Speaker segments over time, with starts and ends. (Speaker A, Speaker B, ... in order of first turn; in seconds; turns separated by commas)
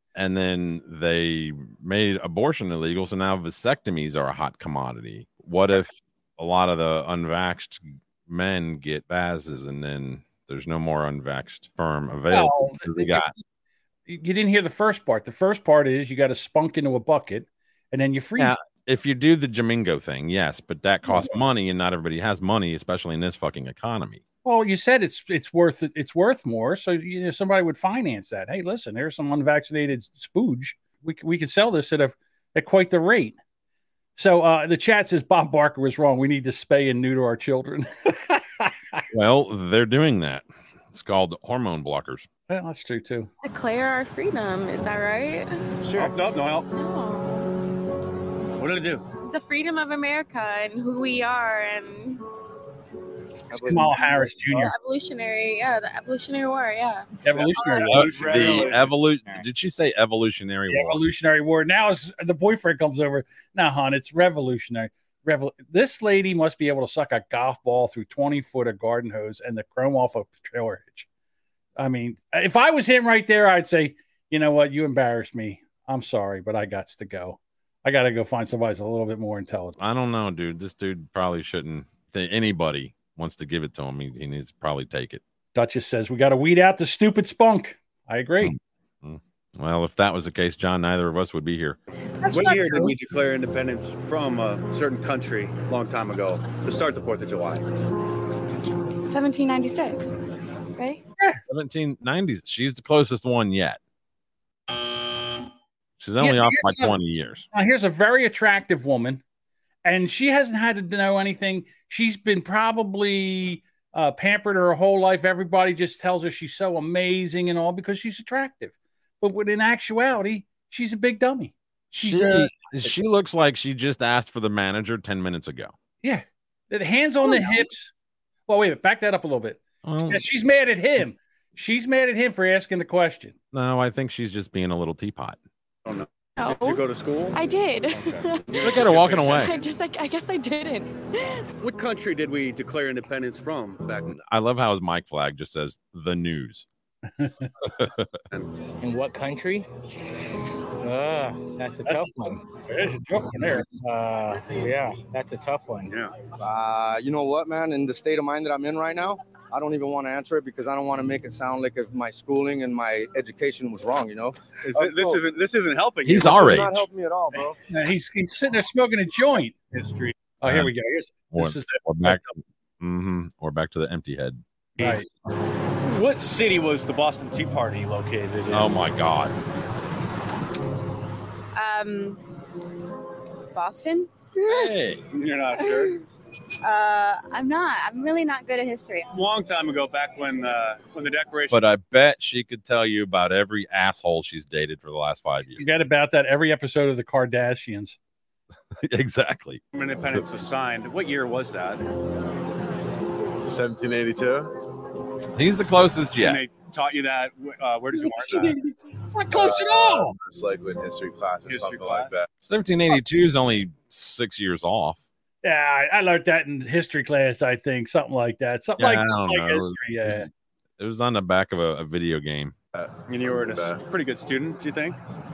Speaker A: 0.1-13.3, Speaker B: 12.3-13.4, Speaker B: 14.1-18.6, Speaker A: 18.4-24.2, Speaker B: 21.1-21.3, Speaker B: 24.4-33.4, Speaker B: 34.1-39.0, Speaker A: 39.1-42.3, Speaker B: 42.5-43.3, Speaker C: 43.4-45.5, Speaker D: 45.8-46.7, Speaker C: 46.7-47.5, Speaker D: 48.6-49.0, Speaker C: 49.2-52.2, Speaker E: 53.5-54.4, Speaker B: 53.6-54.7, Speaker C: 54.5-57.1, Speaker B: 57.2-58.1, Speaker D: 57.4-58.9, Speaker A: 57.9-61.0, Speaker B: 60.7-71.1, Speaker B: 71.8-79.8, Speaker A: 79.8-85.2, Speaker B: 85.5-88.5, Speaker A: 88.4-91.8, Speaker B: 92.2-92.9, Speaker D: 92.2-97.6, Speaker C: 99.0-100.2, Speaker C: 100.8-101.0, Speaker A: 101.5-103.8, Speaker A: 106.0-107.5, Speaker B: 106.2-107.0, Speaker B: 107.5-109.2, Speaker B: 109.8-122.5, Speaker A: 121.9-125.7, Speaker B: 126.0-127.9, Speaker B: 128.5-133.3, Speaker A: 129.8-130.2, Speaker A: 133.5-135.4, Speaker D: 135.8-137.4, Speaker C: 136.4-138.7, Speaker D: 138.0-139.6, Speaker A: 138.6-139.5, Speaker C: 139.3-141.3, Speaker D: 141.6-144.1, Speaker A: 144.1-146.7, Speaker A: 147.6-148.1, Speaker F: 148.8-149.7, Speaker F: 150.8-152.4, Speaker B: 151.8-153.7, Speaker F: 153.6-155.9, Speaker D: 155.9-156.1, Speaker E: 156.4-165.2, Speaker D: 164.6-166.7, Speaker A: 166.0-166.9, Speaker E: 166.4-167.6, Speaker B: 167.7-169.5, Speaker D: 169.7-170.1, Speaker B: 170.4-172.3, Speaker A: 170.4-170.7, Speaker A: 171.3-174.4, Speaker B: 174.8-175.1, Speaker D: 175.8-178.7, Speaker A: 178.5-179.3, Speaker G: 181.5-182.2, Speaker G: 183.5-184.1, Speaker A: 184.4-185.0, Speaker D: 185.1-185.9, Speaker G: 186.6-189.1, Speaker D: 189.1-191.6, Speaker A: 191.5-195.7, Speaker B: 195.5-198.0, Speaker A: 198.8-199.6, Speaker D: 199.7-201.8, Speaker H: 203.4-204.5, Speaker A: 205.3-206.4, Speaker D: 206.2-208.6, Speaker B: 207.9-210.2, Speaker H: 209.3-212.3, Speaker D: 211.4-212.2, Speaker A: 212.4-215.0, Speaker B: 215.4-220.3, Speaker A: 218.8-222.5, Speaker H: 222.7-223.8, Speaker D: 223.1-225.0